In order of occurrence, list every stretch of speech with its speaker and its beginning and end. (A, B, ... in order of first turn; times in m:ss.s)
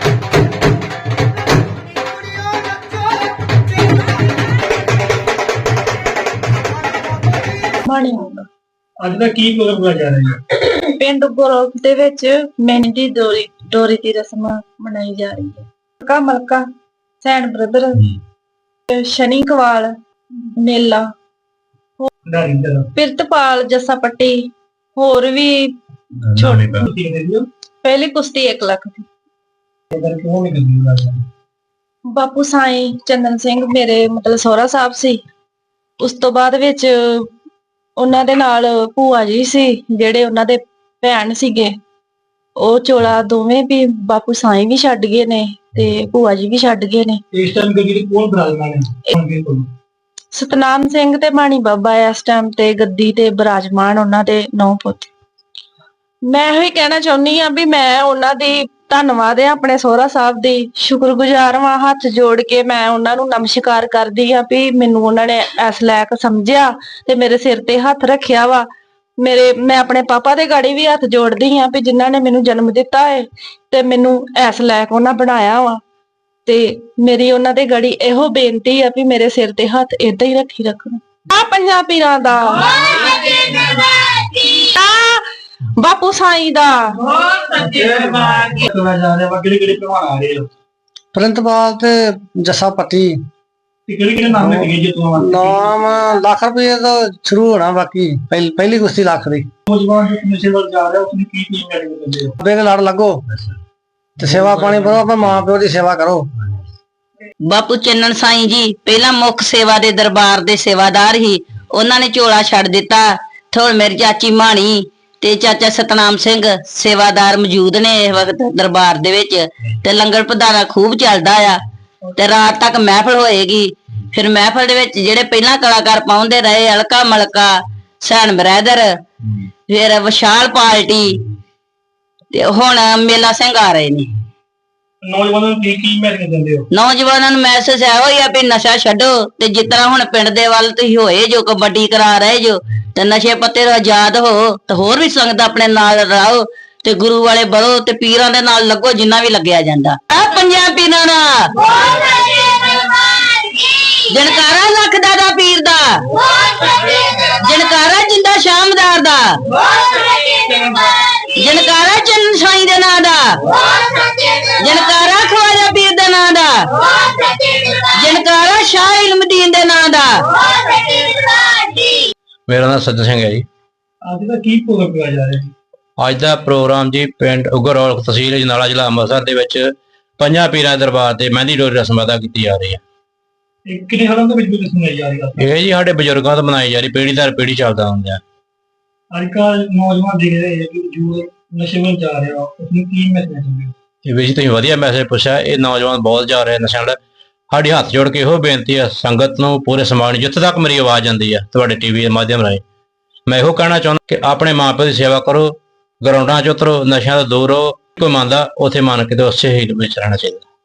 0:07.4-0:08.5 A
0:09.0-0:10.4 B
0:10.6-0:16.6 A
0:17.2-0:18.1 A
0:18.9-0:21.1 A
0:22.2-0:22.9 B
0:22.9-0:25.8 A
0:26.3-0:26.8 A
0:26.5-0:27.5 B
0:27.8-0:29.1 A
0:29.9-0:31.2 B
0:32.1-0:35.2 A
0:36.0-0:37.3 A
0:38.0-0:41.7 A
0:42.6-0:47.2 A
0:47.3-0:49.7 B
0:50.3-0:55.1 A
0:56.2-1:08.6 A
1:09.2-1:15.8 A
1:16.4-1:27.5 A
1:27.5-1:30.5 B
1:31.1-1:33.2 C
1:33.9-1:35.6 B
1:34.3-1:39.5 C
1:39.7-1:42.4 B
1:42.4-1:43.2 C
1:44.2-1:46.3 C
1:44.3-1:44.8 B
1:47.4-2:01.6 D
2:02.1-2:08.9 D
2:09.7-2:11.2 D
2:12.3-2:14.1 D
2:15.0-2:16.7 B
2:16.7-2:32.9 D
2:33.6-2:52.0 D
2:52.5-2:53.4 E
2:54.0-2:55.5 B
2:56.0-2:59.7 E
3:00.2-3:02.8 E
3:03.6-3:05.4 B
3:05.4-3:08.2 E
3:09.1-3:13.7 B
3:14.0-3:17.0 E
3:17.5-3:22.6 E
3:23.3-3:30.4 E